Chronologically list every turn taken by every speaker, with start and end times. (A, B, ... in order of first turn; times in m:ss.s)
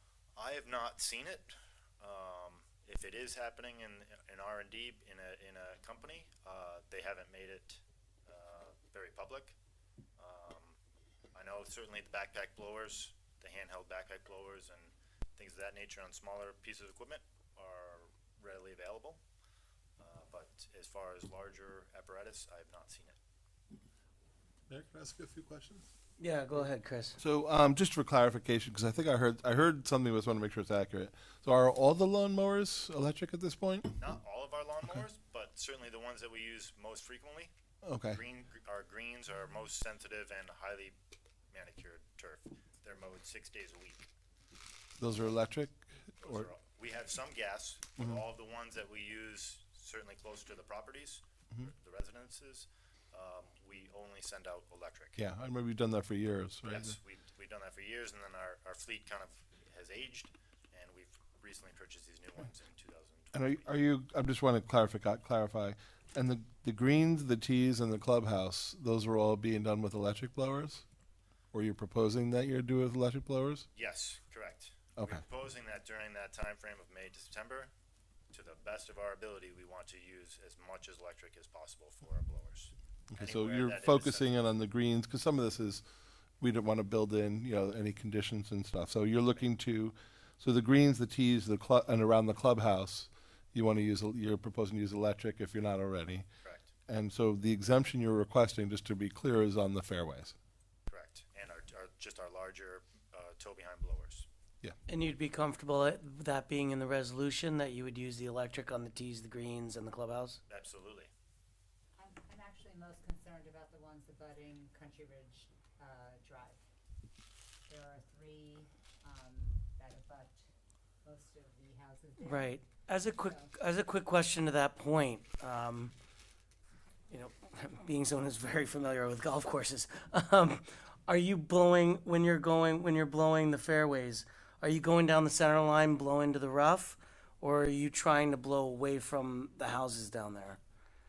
0:00.4-0:09.6 A
0:10.2-0:10.8 A
0:11.3-0:19.2 A
0:20.0-0:23.2 A
0:24.7-0:25.8 B
0:26.2-0:27.2 C
0:27.2-0:34.0 B
0:34.0-0:37.5 A
0:37.8-0:38.2 B
0:38.1-0:41.0 A
0:41.5-0:44.1 A
0:45.0-0:46.5 B
0:46.2-0:55.2 A
0:55.2-0:57.0 B
0:56.6-1:03.7 A
1:03.3-1:10.8 B
1:11.5-1:13.7 B
1:13.7-1:17.7 A
1:15.0-1:15.2 B
1:18.3-1:24.3 A
1:23.1-1:25.8 B
1:26.4-1:36.2 B
1:36.4-1:36.7 A
1:36.9-1:40.3 B
1:40.9-1:44.3 A
1:44.9-1:50.4 C
1:50.5-1:51.1 A
1:52.0-1:56.6 D
1:57.7-2:00.4 D
2:01.0-2:03.5 D
2:02.2-2:05.9 C
2:07.1-2:20.6 C